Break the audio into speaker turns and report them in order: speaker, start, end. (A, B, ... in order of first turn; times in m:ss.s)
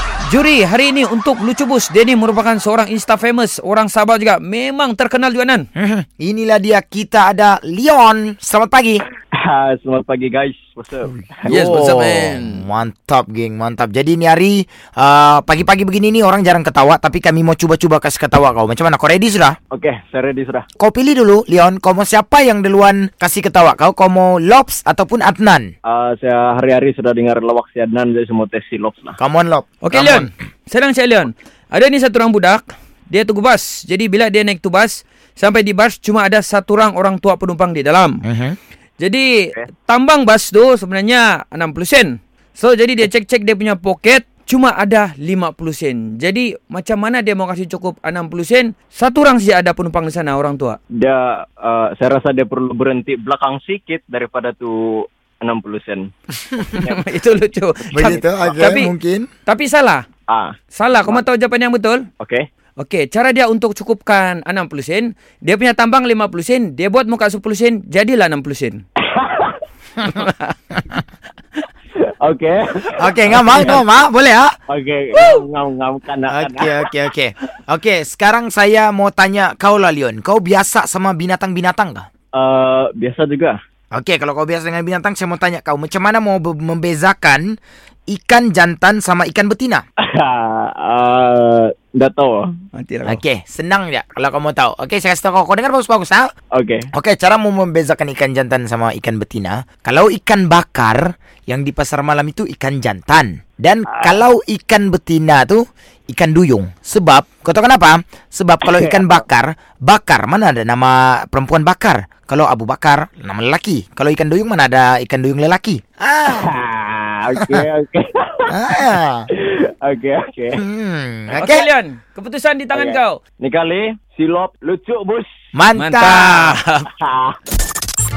0:00.3-0:05.6 A
0:05.8-0:09.0 B
0:09.4-0:11.1 C
0:11.4-0:19.6 B
0:11.4-0:12.6 A
0:19.7-0:20.6 C
0:20.8-0:25.7 B
0:25.9-0:29.2 C
0:29.2-0:30.3 B
0:29.8-0:38.2 A
0:38.2-0:38.6 B
0:39.0-0:50.8 A
0:50.9-0:56.1 C
0:56.7-0:57.0 C
0:56.7-0:58.9 A
0:57.9-0:59.3 B
0:59.4-1:00.0 A
1:00.3-1:00.5 C
1:00.7-1:02.0 A
1:02.2-1:02.4 C
1:02.8-1:08.8 A
1:09.0-1:09.6 C
1:10.0-1:10.2 B
1:10.0-1:10.5 A
1:12.2-1:13.8 C
1:13.0-1:14.5 B
1:14.7-1:16.7 C
1:16.3-1:22.0 B
1:22.3-1:23.6 C
1:23.9-1:27.4 B
1:28.1-1:29.8 B
1:30.0-1:32.4 C
1:32.7-1:33.2 A
1:33.0-1:36.3 B
1:36.5-1:36.9 C
1:36.9-1:56.5 B
1:43.9-1:44.2 C
1:48.6-1:49.2 C
1:56.3-2:00.6 C
1:58.5-1:59.3 B
2:00.6-2:01.7 B
2:01.3-2:03.2 A
2:02.7-2:05.3 C
2:05.5-2:06.6 B
2:05.7-2:06.9 A
2:07.0-2:07.4 C